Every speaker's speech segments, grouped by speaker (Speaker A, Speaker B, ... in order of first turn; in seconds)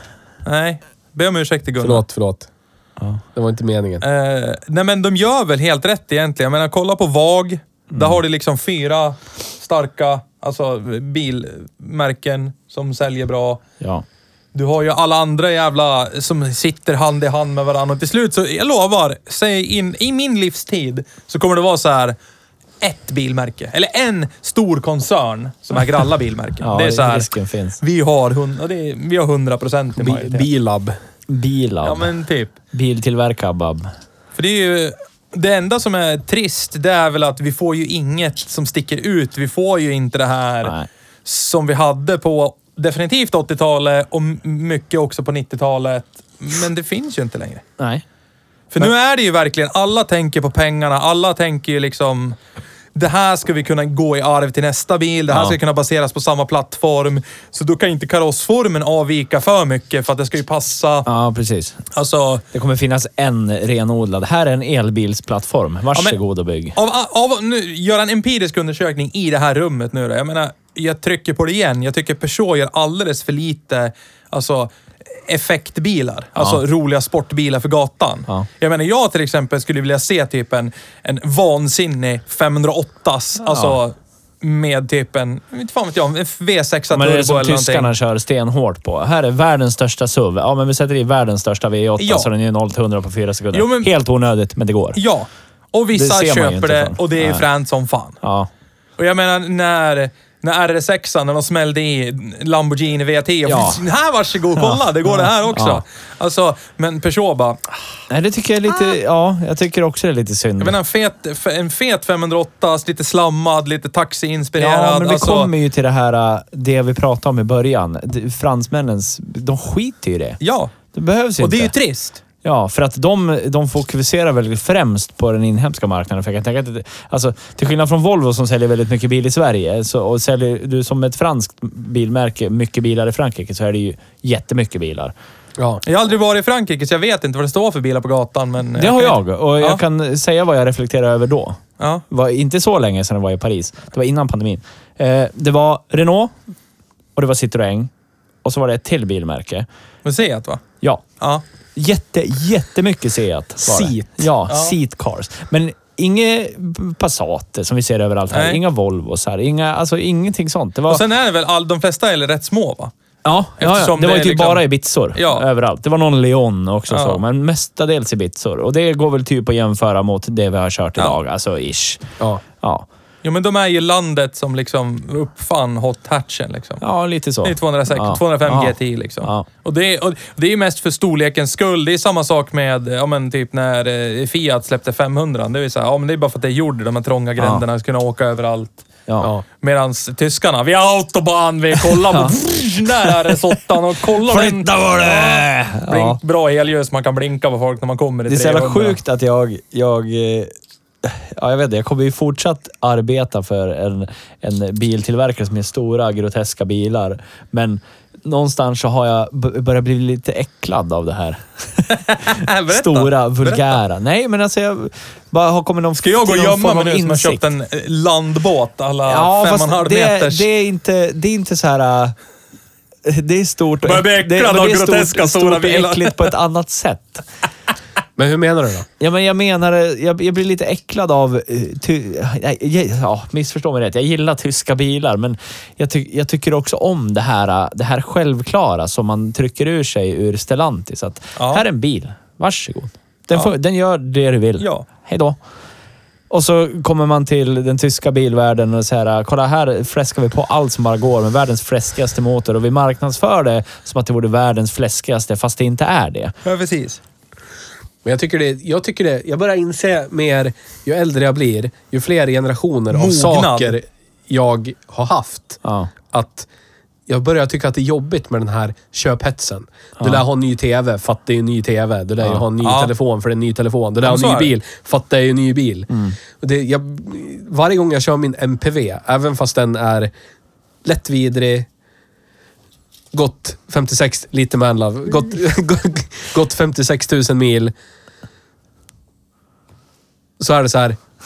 Speaker A: 0.4-2.0, 4.0-13.6, 14.5-22.1, 22.8-30.5, 31.8-32.5, 34.4-47.6, 48.7-52.4, 52.9-61.0, 61.9-62.4, 66.7-87.9, 92.0-92.3, 93.5-93.9, 94.9-98.2, 99.0-107.7, 110.6-115.5, 120.4-120.7, 121.4-122.2, 135.8-139.8, 141.8-142.0, 150.0-150.6, 154.5-154.7, 158.3-158.6, 160.9-162.9, 163.6-165.4, 166.9-167.2, 173.2-176.8, 177.4-188.8, 189.6-199.0, 212.1-213.8, 216.0-220.4, 223.8-226.3, 241.4-241.6, 244.6-244.8, 256.4-257.0, 262.9-263.7, 272.6-272.9, 274.0-274.5
Speaker B: 1.8-2.5, 3.3-4.0, 30.0-30.9, 135.6-135.8, 153.6-154.2, 228.2-228.8, 258.0-265.6, 266.1-266.5, 267.1-280.1, 280.8-281.7, 283.1-287.7, 290.4-291.0
Speaker C: 7.9-8.2, 13.8-14.0, 26.6-27.8, 31.3-32.1, 32.7-33.9, 55.3-55.6, 61.0-61.8, 62.5-66.8, 76.4-76.6, 83.4-83.8, 86.9-95.0, 95.9-97.4, 98.2-98.5, 103.5-103.8, 104.6-105.8, 108.1-110.8, 114.6-120.4, 120.9-121.7, 122.4-135.1, 138.8-146.3, 147.2-147.9, 148.4-149.7, 151.8-161.0, 163.2-172.9, 176.8-179.5, 187.4-187.6, 189.1-189.3, 191.9-192.4, 194.2-196.2, 198.3-217.4, 219.1-222.1, 223.0-227.2, 229.0-245.4, 246.3-256.3, 265.6-265.9, 270.0-270.2, 275.9-276.2